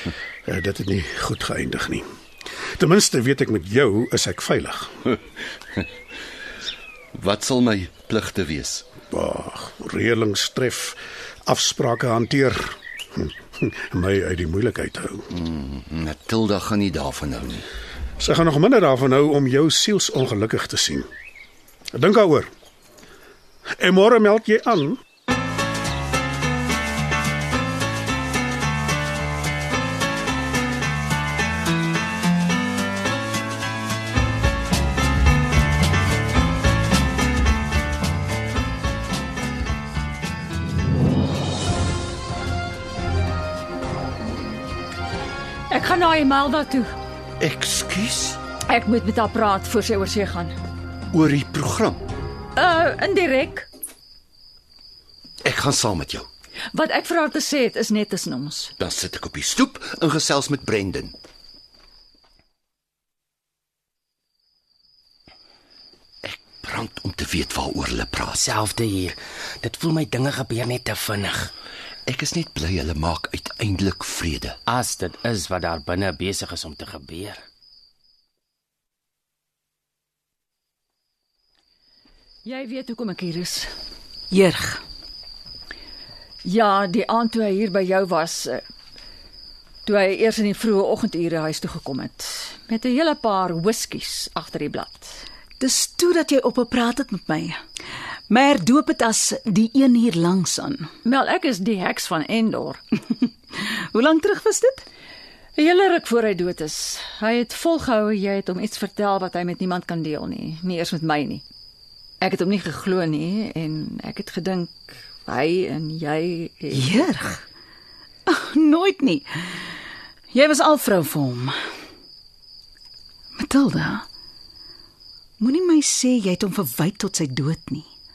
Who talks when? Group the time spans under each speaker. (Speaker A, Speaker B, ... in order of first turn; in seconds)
Speaker A: 0.5-2.1, 2.8-5.0, 9.1-15.3, 18.2-21.1, 21.9-22.5, 23.8-25.0
Speaker B: 7.1-8.9, 15.3-17.7, 47.4-48.4, 51.1-52.1, 55.4-56.3, 58.8-61.1, 66.2-68.4, 72.1-74.6
Speaker C: 45.7-46.9, 48.7-50.5, 52.5-53.7, 56.7-58.7, 82.4-83.7, 86.4-88.6, 89.9-95.2, 101.0-102.8, 105.6-111.4, 112.2-117.1
Speaker D: 68.3-71.5, 74.7-77.4
Speaker E: 84.3-84.8, 95.6-97.5, 98.3-100.8, 104.0-104.8, 116.8-117.4, 118.3-119.5, 120.3-121.5, 123.4-124.0, 125.4-127.8